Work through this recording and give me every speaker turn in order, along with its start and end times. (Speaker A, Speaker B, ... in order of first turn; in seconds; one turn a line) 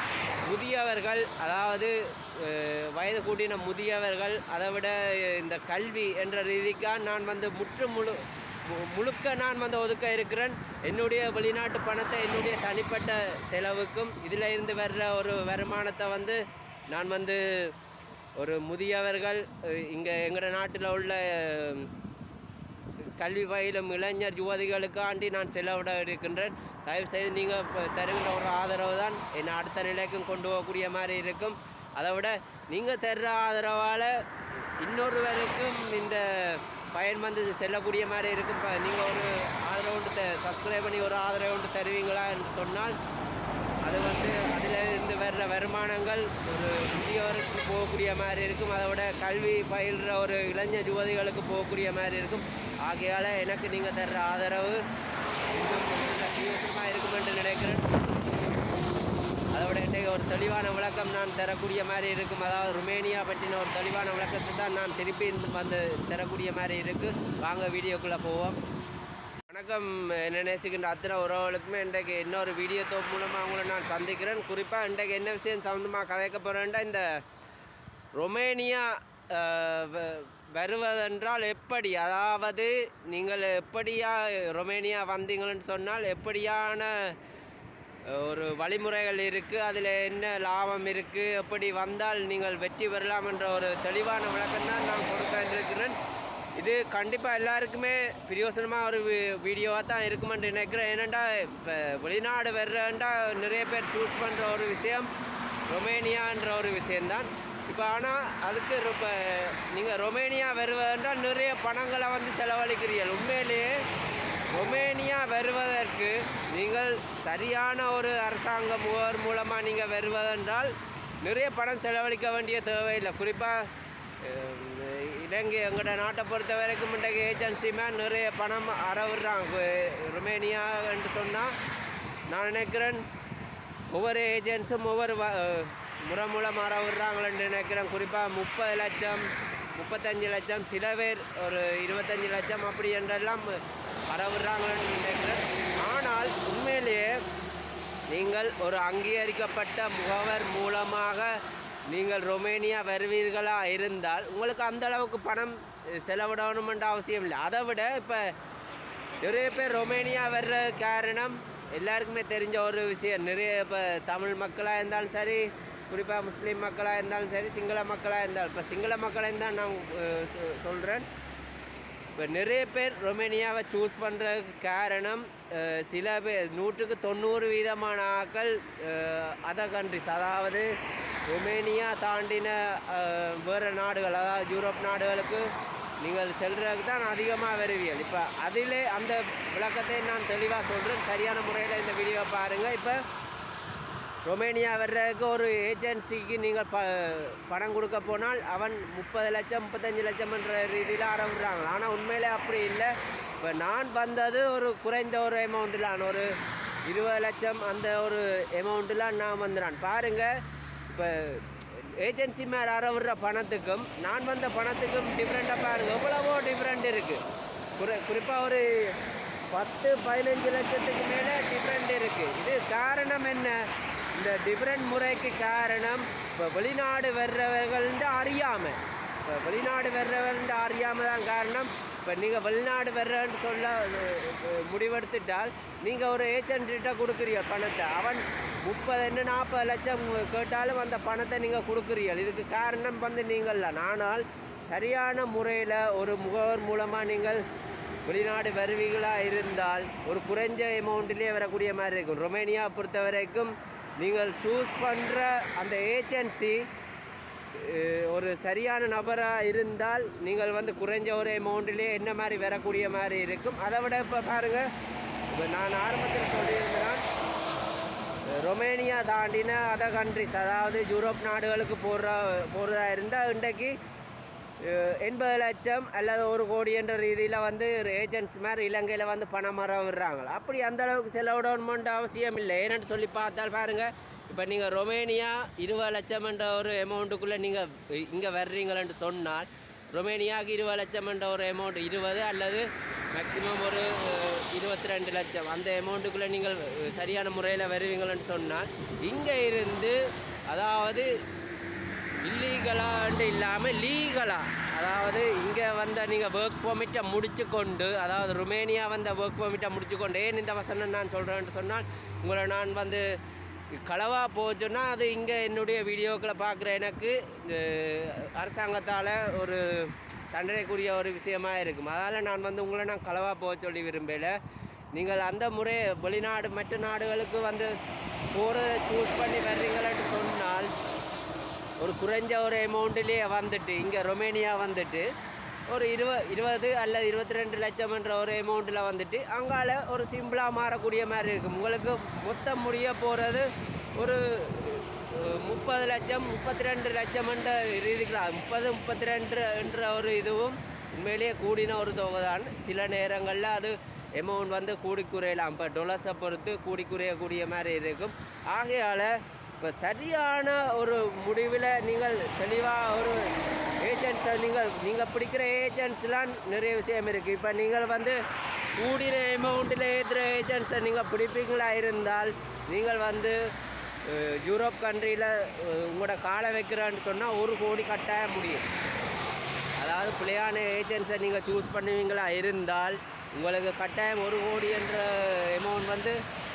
Speaker A: 0.5-17.8
Speaker A: 18.4-21.9
Speaker A: 23.2-34.2
Speaker A: 34.8-43.0
Speaker A: 43.8-54.8
Speaker A: 55.5-57.9
Speaker A: 59.5-68.6
Speaker A: 69.5-77.2
Speaker A: 78.2-87.2
Speaker A: 88.1-96.0
Speaker A: 96.6-105.1
Speaker A: 105.7-113.8
Speaker A: 114.5-123.7
Speaker A: 124.2-131.5
Speaker A: 132.3-133.0
Speaker A: 133.9-147.2
Speaker A: 148.1-151.4
Speaker A: 151.9-158.3
Speaker A: 159.2-171.1
Speaker A: 172.2-180.7
Speaker A: 181.3-185.5
Speaker A: 186.0-193.0
Speaker A: 194.2-206.3
Speaker A: 206.9-210.3
Speaker A: 210.9-217.2
Speaker A: 217.8-219.0
Speaker A: 219.5-247.4
Speaker A: 248.1-256.7
Speaker A: 257.5-264.7
Speaker A: 265.3-267.0
Speaker A: 268.3-273.8
Speaker A: 274.6-300.0
Speaker A: 300.5-301.1
Speaker A: 302.2-313.1
Speaker A: 313.7-324.4
Speaker A: 324.9-327.7
Speaker A: 328.3-330.7
Speaker A: 331.8-335.1
Speaker A: 335.7-363.3
Speaker A: 363.8-368.2
Speaker A: 368.8-373.4
Speaker A: 374.0-378.6
Speaker A: 379.8-386.2